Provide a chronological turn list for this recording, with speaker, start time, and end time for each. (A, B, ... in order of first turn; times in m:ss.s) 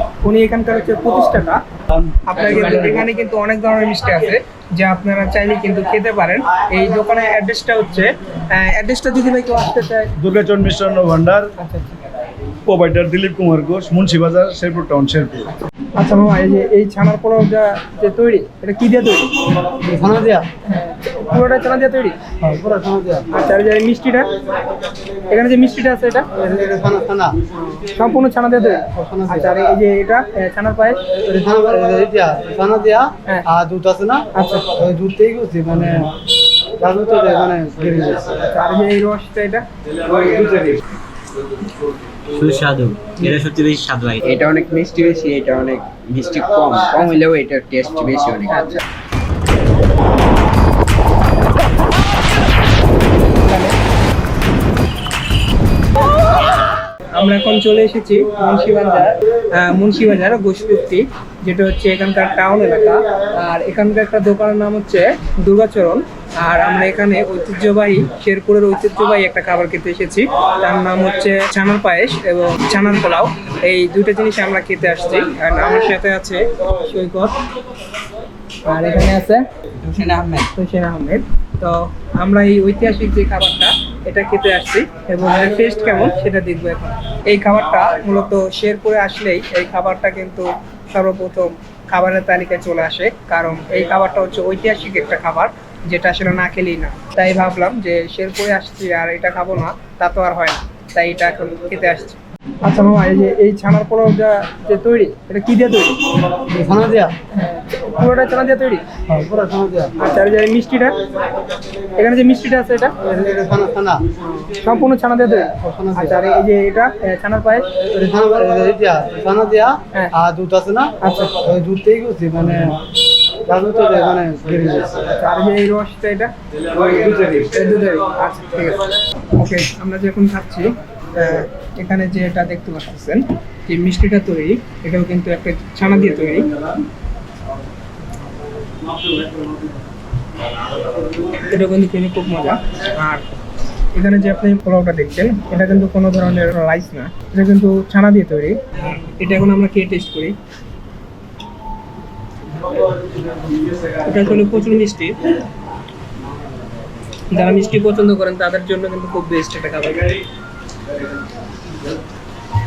0:00.2-0:01.6 A
0:01.9-0:02.4 B
0:02.2-0:10.1 A
0:10.2-0:11.5 B
0:11.6-0:12.0 A
0:12.6-0:15.5 B
0:16.0-0:19.4 A
0:19.8-0:20.4 C
0:20.7-0:22.2 A
0:22.4-0:23.3 C
0:23.3-0:24.3 A
0:25.3-0:26.3 A
0:26.3-0:27.4 C
0:27.5-0:31.2 A
0:28.8-0:29.6 C
0:31.2-0:36.1 C
0:34.3-0:34.7 A
0:36.8-0:38.4 C
0:38.5-0:39.6 A
0:42.3-0:44.2 D
0:44.2-0:48.7 E
0:53.3-0:53.8 A
0:57.1-1:17.3 A
1:18.6-1:19.4 A
1:19.8-1:20.5 E
1:20.5-1:46.0 A
1:46.5-1:47.1 C
1:47.3-1:48.8 A
1:49.1-1:49.9 C
1:50.0-1:51.0 A
1:52.0-1:53.0 A
1:53.0-1:54.0 C
1:54.3-1:57.8 A
1:55.5-1:56.2 C
1:57.8-2:02.8 C
2:01.0-2:01.4 A
2:03.5-2:05.1 C
2:05.1-2:08.8 A
2:09.4-2:16.6 A
2:21.3-2:23.2 A
2:23.9-2:30.4 A
2:34.0-2:35.2 A
2:37.3-2:40.2 A